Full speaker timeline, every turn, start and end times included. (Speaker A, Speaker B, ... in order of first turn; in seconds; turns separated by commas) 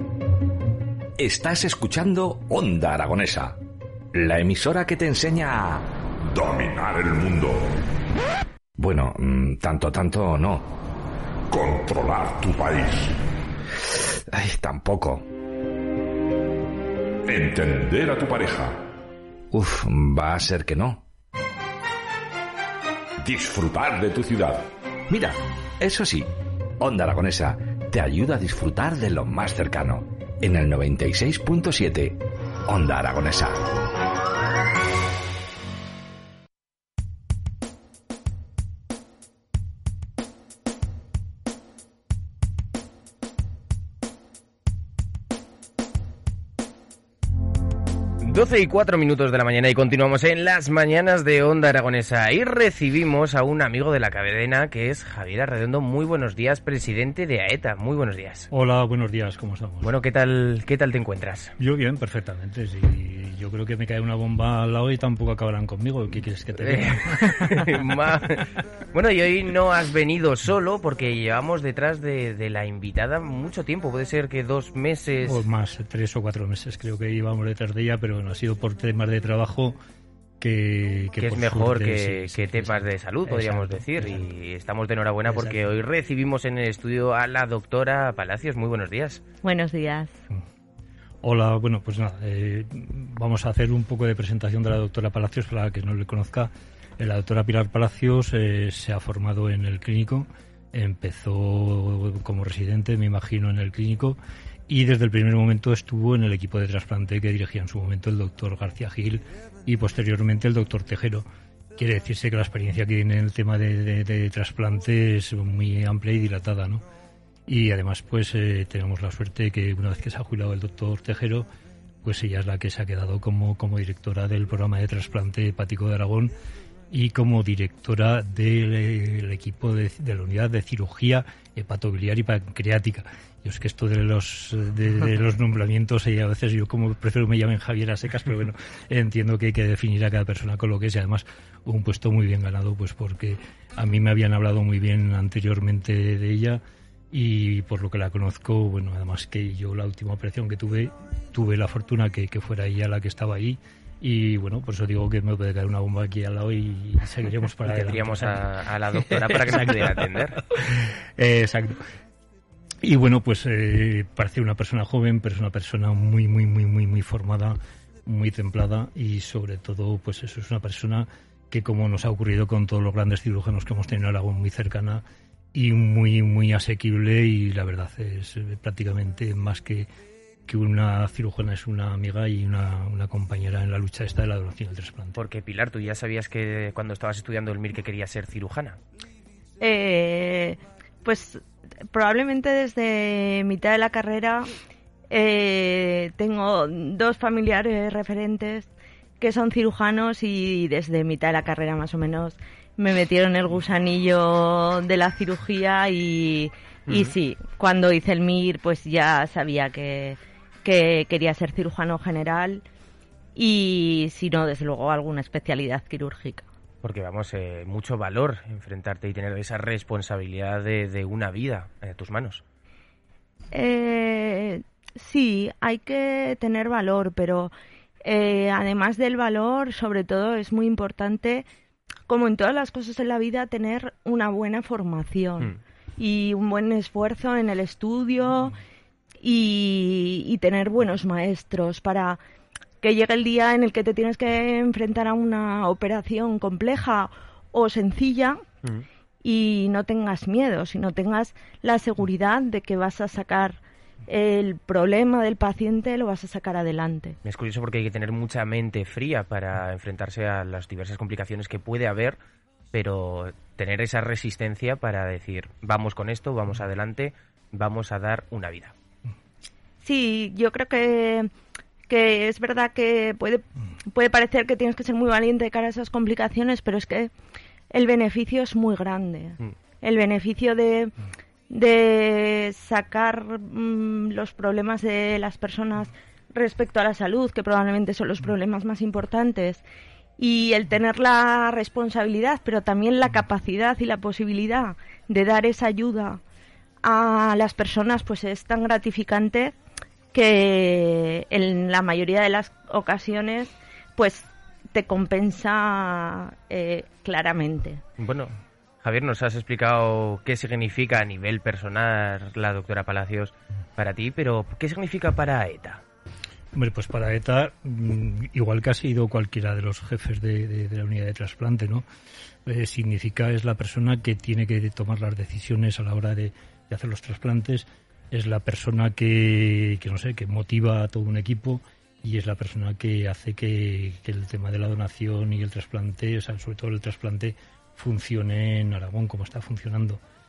Speaker A: 1.2-3.6, Speaker A: 4.1-5.8, Speaker B: 6.3-7.8, Speaker A: 8.8-10.7, Speaker B: 11.5-13.2, Speaker A: 14.3-15.3, Speaker B: 17.3-18.8, Speaker A: 19.5-21.0, Speaker B: 23.2-24.7, Speaker A: 25.1-33.7, Speaker C: 48.2-58.5, Speaker D: 58.5-59.9, Speaker C: 59.8-61.5, Speaker D: 61.6-68.4, Speaker C: 66.6-75.4, Speaker D: 75.2-79.8, Speaker D: 80.4-84.2, Speaker C: 81.2-89.2, Speaker D: 85.3-85.7, Speaker E: 89.4-90.2, Speaker D: 91.2-111.2, Speaker D: 111.8-116.8, Speaker D: 117.5-121.5, Speaker D: 122.0-126.3, Speaker D: 126.9-158.4, Speaker C: 157.7-160.4, Speaker D: 159.1-161.8, Speaker D: 162.8-179.9, Speaker D: 180.5-185.2, Speaker C: 185.2-188.8, Speaker E: 189.6-194.5, Speaker E: 195.1-198.7, Speaker E: 199.2-212.6, Speaker E: 213.3-216.4, Speaker C: 216.8-222.4, Speaker E: 223.5-227.5, Speaker E: 228.0-231.4, Speaker E: 232.1-238.6, Speaker E: 239.2-242.2, Speaker E: 242.8-248.4, Speaker E: 249.2-257.2, Speaker C: 257.2-262.2, Speaker C: 262.7-268.7, Speaker E: 269.8-271.3, Speaker E: 271.9-277.1, Speaker E: 277.7-280.9, Speaker E: 281.5-289.6, Speaker E: 290.2-296.2, Speaker E: 296.8-299.5, Speaker E: 300.1-307.8, Speaker C: 308.0-315.8, Speaker D: 316.5-321.8, Speaker D: 322.4-340.0